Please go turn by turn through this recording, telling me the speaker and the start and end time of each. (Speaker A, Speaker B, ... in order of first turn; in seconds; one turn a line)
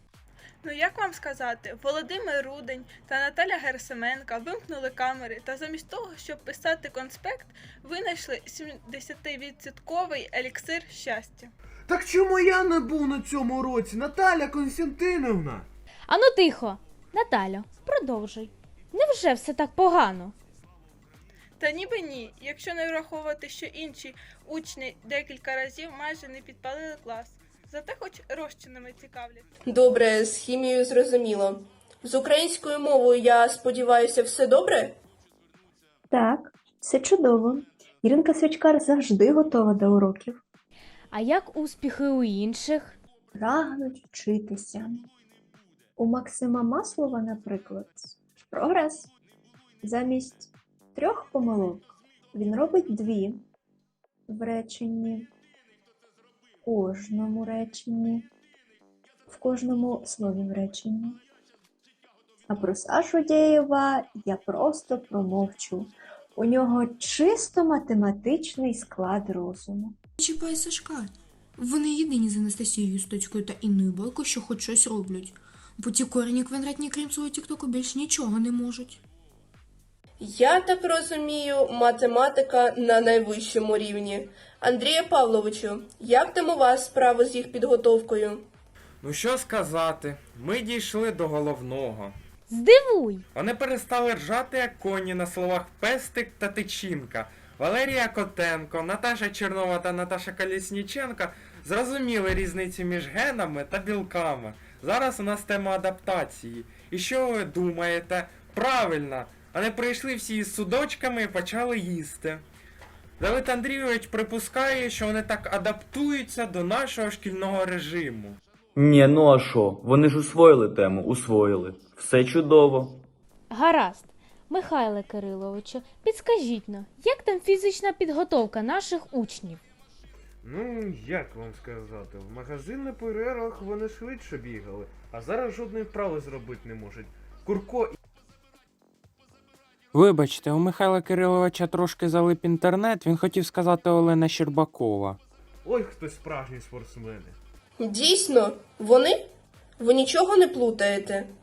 Speaker A: 0.6-11.5
Speaker B: 11.9-15.7
Speaker C: 16.1-20.4
Speaker A: 21.6-29.4
Speaker D: 29.7-35.0
Speaker E: 36.1-40.4
Speaker C: 41.1-43.0
Speaker E: 43.4-45.1
Speaker E: 46.0-49.1
Speaker E: 49.8-53.5
Speaker E: 54.3-55.3
Speaker E: 56.6-58.3
Speaker E: 59.3-61.2
Speaker E: 62.5-70.0
Speaker F: 70.2-79.0
Speaker D: 80.2-88.5
Speaker G: 89.0-92.2
Speaker C: 92.5-93.3
Speaker G: 93.3-112.4
Speaker G: 113.2-118.4
Speaker H: 118.8-123.0
Speaker C: 123.5-129.6
Speaker B: 130.4-138.0
Speaker G: 139.9-145.2
Speaker B: 145.7-147.4
Speaker D: 147.8-149.2
Speaker D: 149.8-151.3